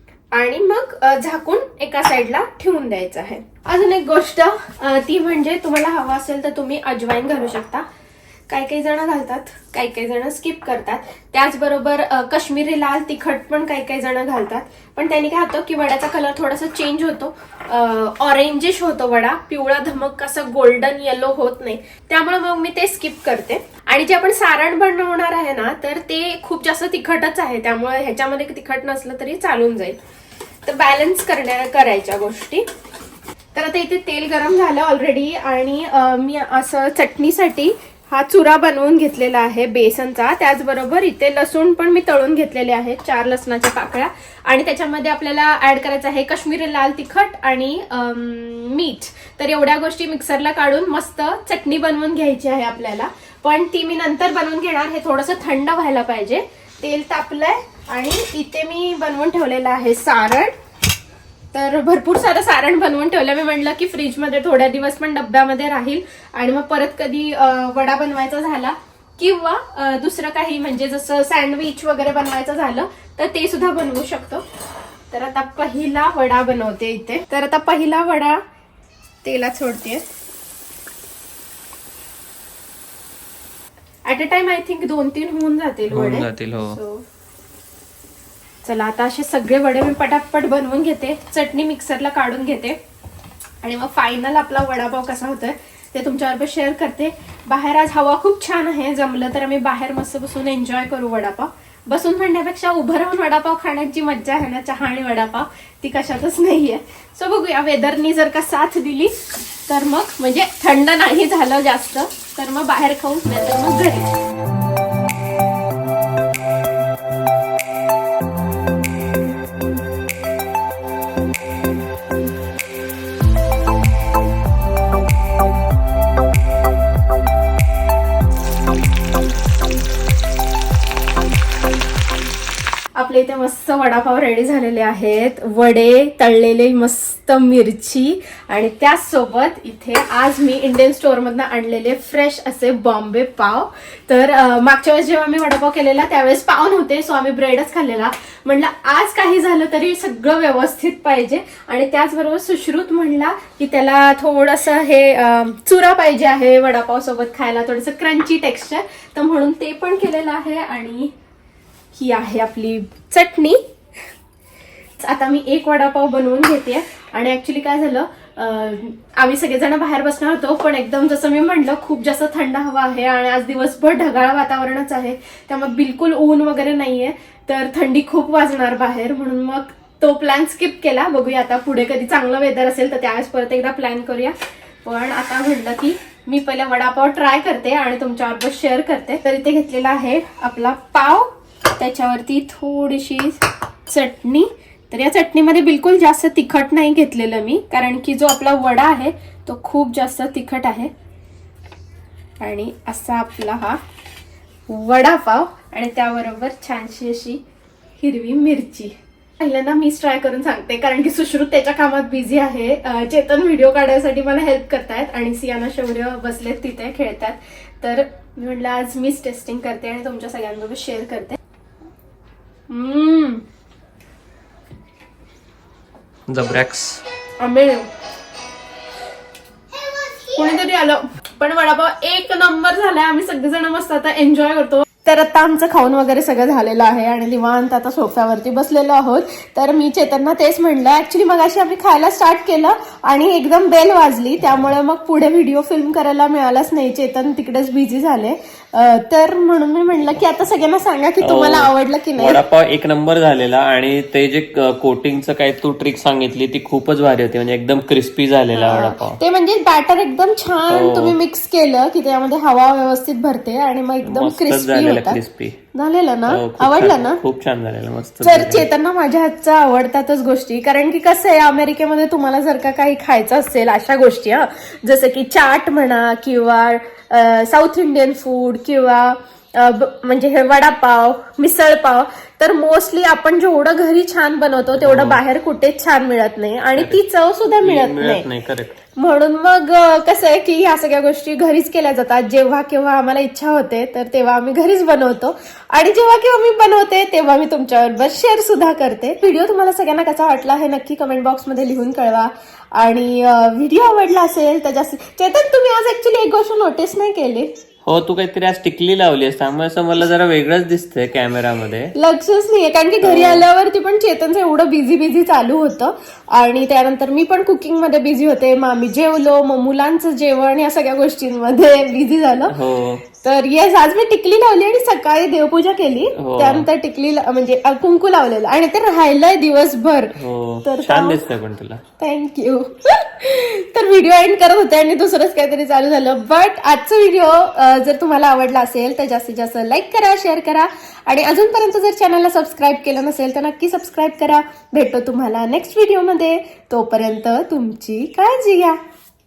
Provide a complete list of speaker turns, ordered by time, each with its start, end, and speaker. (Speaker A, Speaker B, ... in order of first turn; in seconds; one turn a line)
Speaker A: 0.3-7.8
Speaker A: 8.5-30.0
Speaker A: 30.6-32.6
Speaker A: 33.5-60.5
Speaker A: 61.5-74.4
Speaker A: 75.1-78.4
Speaker A: 79.2-80.0
Speaker A: 84.0-87.0
Speaker B: 85.9-86.8
Speaker A: 88.6-92.8
Speaker A: 93.6-109.2
Speaker A: 109.7-114.1
Speaker A: 133.0-161.1
Speaker A: 161.9-163.6
Speaker A: 165.0-200.9
Speaker A: 202.4-203.8
Speaker A: 204.7-207.4
Speaker A: 208.0-221.4
Speaker A: 222.7-223.4
Speaker B: 226.3-227.0
Speaker A: 227.4-227.9
Speaker A: 230.3-252.4
Speaker B: 251.2-259.2
Speaker A: 258.5-265.2
Speaker B: 260.7-261.2
Speaker B: 264.0-265.6
Speaker A: 265.7-267.2
Speaker B: 266.3-268.7
Speaker A: 268.2-288.2
Speaker B: 284.8-285.2
Speaker B: 286.8-287.0
Speaker B: 287.6-288.8
Speaker A: 289.0-307.5
Speaker B: 307.9-311.9
Speaker A: 311.9-322.5
Speaker B: 313.0-313.5
Speaker B: 322.5-323.0
Speaker A: 323.1-331.2
Speaker B: 326.1-326.7
Speaker B: 330.1-331.8
Speaker A: 332.0-348.8